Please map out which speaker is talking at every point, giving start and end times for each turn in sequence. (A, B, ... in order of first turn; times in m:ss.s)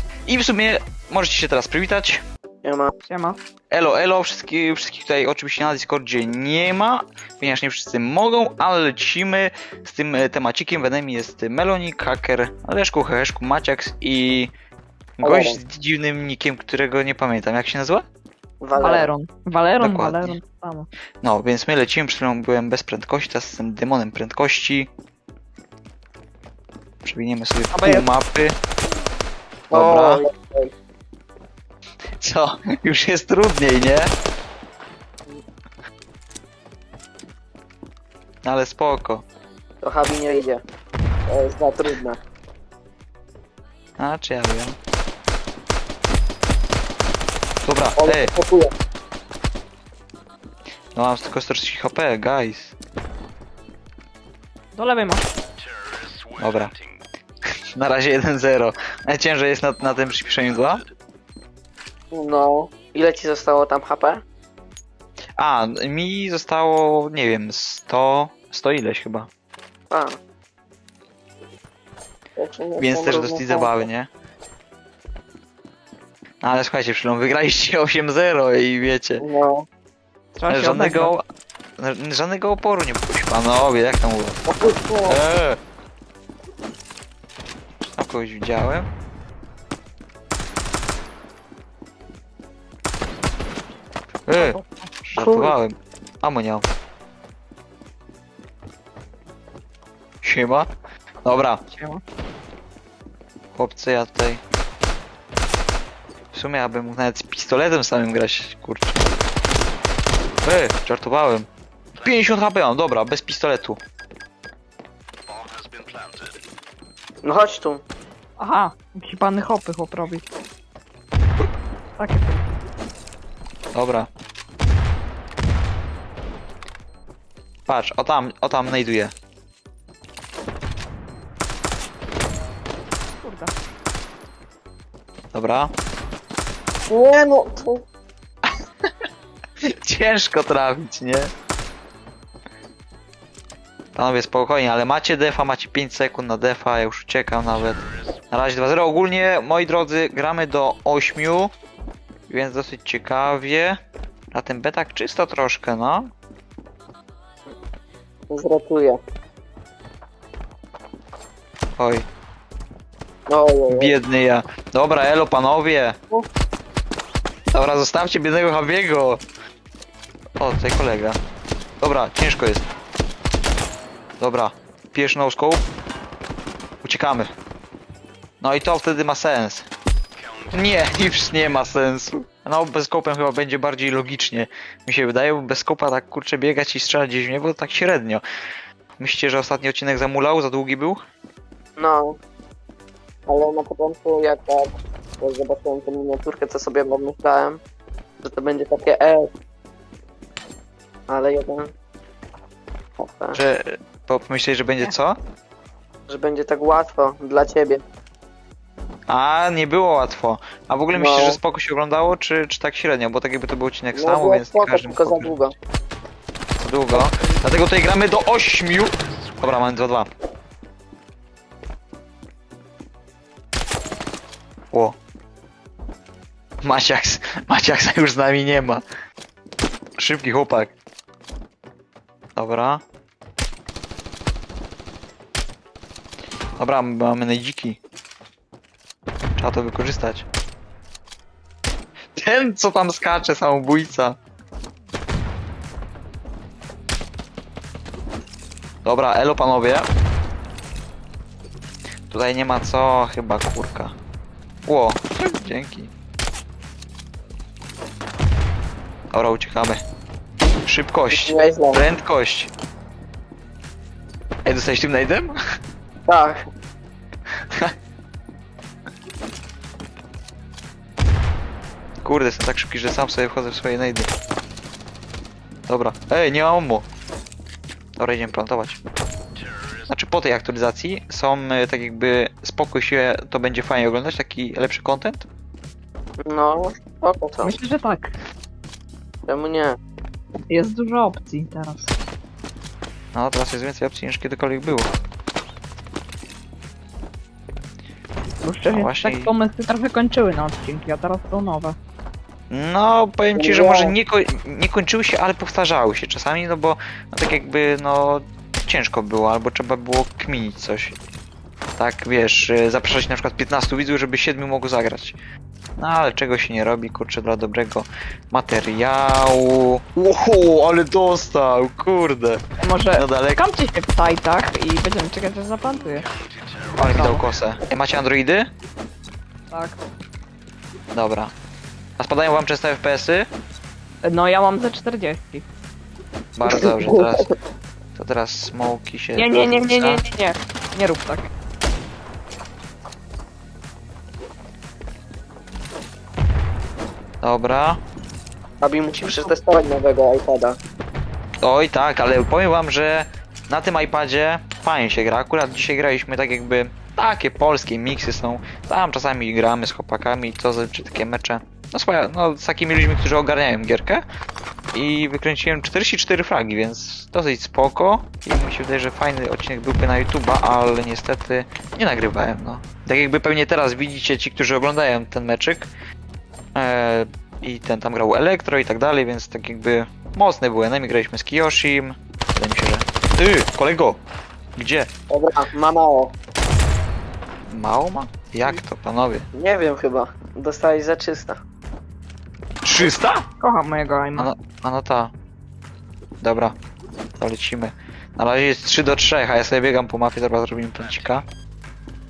0:00.2-0:02.2 A
0:02.6-0:02.9 B
0:03.0-0:03.4 C
0:03.7-0:14.5 A
0:15.2-0:18.0 A
0:15.2-0:15.6 B
0:18.6-0:19.1 B
0:18.8-0:20.9 C
0:19.8-0:20.4 A
0:21.2-0:24.9 A
0:27.0-0:28.5 A
0:27.7-0:28.1 C
0:29.7-0:30.2 A
0:29.7-0:30.7 B
0:32.2-0:34.1 A
0:38.4-0:39.2 A
0:39.8-0:40.6 B
0:41.3-0:42.2 B
0:44.0-0:44.8 A
0:47.6-0:48.3 A
0:48.0-0:48.7 B
0:50.9-0:52.7 A
0:54.7-0:55.3 C
0:56.4-0:56.8 A
0:57.8-1:00.8 A
1:02.1-1:04.2 B
1:05.4-1:09.3 A
1:09.9-1:10.2 B
1:12.4-1:13.8 B
1:12.8-1:14.1 A
1:16.4-1:19.2 A
1:19.2-1:19.6 B
1:20.4-1:21.1 C
1:20.5-1:21.2 A
1:21.8-1:24.4 A
1:24.5-1:25.2 B
1:25.1-1:25.6 A
1:27.8-1:28.9 A
1:34.3-1:36.7 A
1:34.4-1:34.9 C
1:35.2-1:35.5 B
1:40.2-1:40.7 A
1:41.2-1:41.6 A
1:41.7-1:42.0 C
1:43.5-1:44.4 A
1:46.3-1:49.1 A
1:50.4-1:51.5 A
1:52.0-1:53.8 A
1:57.2-1:57.8 B
1:58.4-2:00.2 C
2:02.0-2:02.6 C
2:03.7-2:04.1 A
2:07.7-2:09.1 A
2:13.2-2:13.5 C
2:15.3-2:15.7 A
2:16.9-2:17.8 B
2:19.7-2:21.3 A
2:23.9-2:31.5 A
2:32.3-2:33.8 A
2:34.3-2:36.1 A
2:38.3-2:39.0 B
2:41.8-2:42.0 A
2:43.3-2:43.9 B
2:43.7-2:46.0 A
2:47.5-2:49.2 A
2:50.4-2:51.2 A
2:51.8-2:52.6 A
2:54.2-2:55.7 A
2:56.8-2:57.3 A
2:58.4-2:59.7 A
3:00.5-3:08.2 A
3:09.0-3:11.0 A
3:11.8-3:12.2 B
3:13.3-3:17.6 B
3:18.2-3:19.3 B
3:21.1-3:21.7 B
3:23.0-3:23.4 B
3:23.3-3:25.2 A
3:26.1-3:27.8 B
3:29.1-3:35.4 A
3:30.9-3:31.4 B
3:33.9-3:35.5 B
3:36.6-3:40.1 A
3:36.9-3:37.4 B
3:44.7-3:45.0 A
3:46.6-3:48.8 A
3:50.0-3:50.7 A
3:52.4-3:52.8 A
3:56.6-3:57.8 A
3:59.4-4:00.2 A
4:02.2-4:04.2 A
4:08.8-4:09.9 A
4:12.1-4:13.9 A
4:14.6-4:15.9 A
4:19.1-4:19.8 A
4:20.6-4:22.5 A
4:21.1-4:21.8 B
4:24.4-4:25.3 A
4:26.1-4:26.4 B
4:32.0-4:34.1 A
4:35.7-4:36.9 A
4:38.0-4:38.8 A
4:39.9-4:45.2 A
4:46.3-4:47.5 B
4:47.4-4:48.1 C
4:49.3-4:49.8 B
4:50.5-4:51.9 C
4:53.1-4:54.9 A
4:58.4-5:01.8 C
4:58.7-4:59.3 A
5:02.5-5:11.0 A
5:03.3-5:03.9 B
5:11.8-5:15.2 A
5:15.8-5:22.4 A
5:22.6-5:26.1 C
5:23.0-5:23.4 A
5:26.8-5:28.5 A
5:26.8-5:27.2 C
5:29.5-5:29.8 C
5:30.9-5:31.3 A
5:32.0-5:33.3 A
5:34.0-5:35.4 C
5:36.4-5:37.3 A
5:36.5-5:37.3 B
5:37.9-5:40.0 A
5:39.2-5:41.3 C
5:47.2-5:47.8 A
5:48.6-5:50.6 B
5:49.0-5:49.2 C
5:51.4-6:04.0 A
6:04.7-6:15.7 A
6:16.5-6:24.0 A
6:24.6-6:24.9 A
6:25.1-6:26.1 B
6:27.5-6:29.2 A
6:29.3-6:31.4 B
6:32.6-6:33.2 A
6:33.4-6:34.3 C
6:34.2-6:35.1 A
6:36.2-6:36.6 A
6:37.2-6:41.2 A